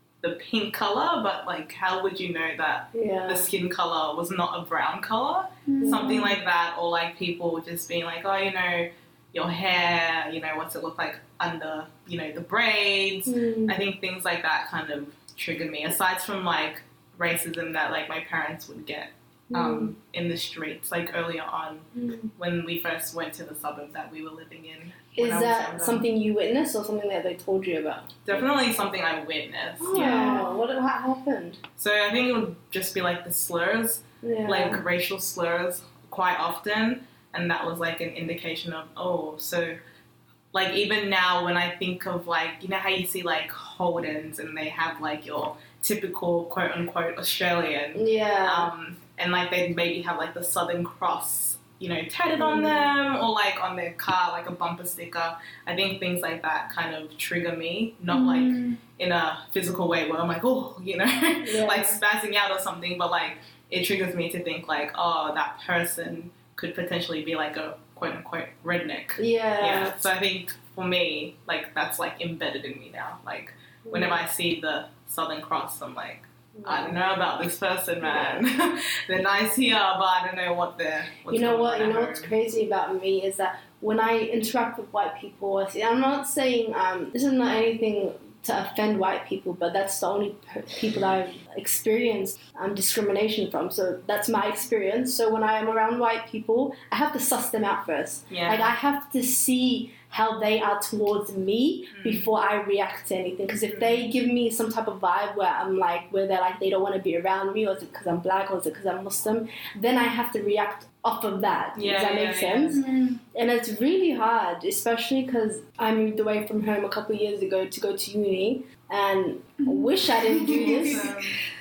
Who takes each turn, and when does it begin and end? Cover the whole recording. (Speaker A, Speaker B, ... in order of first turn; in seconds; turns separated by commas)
Speaker A: 0.2-26.0, Speaker B: 2.9-3.5, Speaker C: 5.7-6.3, Speaker B: 5.8-6.4, Speaker B: 13.2-13.8, Speaker B: 19.5-19.9, Speaker B: 21.9-22.3, Speaker B: 25.2-28.4, Speaker A: 28.2-30.5, Speaker B: 29.8-31.6, Speaker C: 29.9-30.6, Speaker A: 31.8-39.8, Speaker B: 34.2-34.8, Speaker A: 40.5-82.3, Speaker B: 47.9-48.7, Speaker B: 52.3-52.9, Speaker C: 58.1-58.8, Speaker B: 61.4-62.0, Speaker B: 69.2-70.0, Speaker B: 73.8-74.2, Speaker B: 76.5-77.0, Speaker B: 78.0-78.5, Speaker B: 81.3-112.8, Speaker A: 98.3-98.7, Speaker A: 101.9-102.3, Speaker A: 103.7-104.0, Speaker A: 111.7-112.8, Speaker C: 112.7-113.2, Speaker B: 113.3-121.1, Speaker C: 119.6-121.0, Speaker A: 120.4-121.4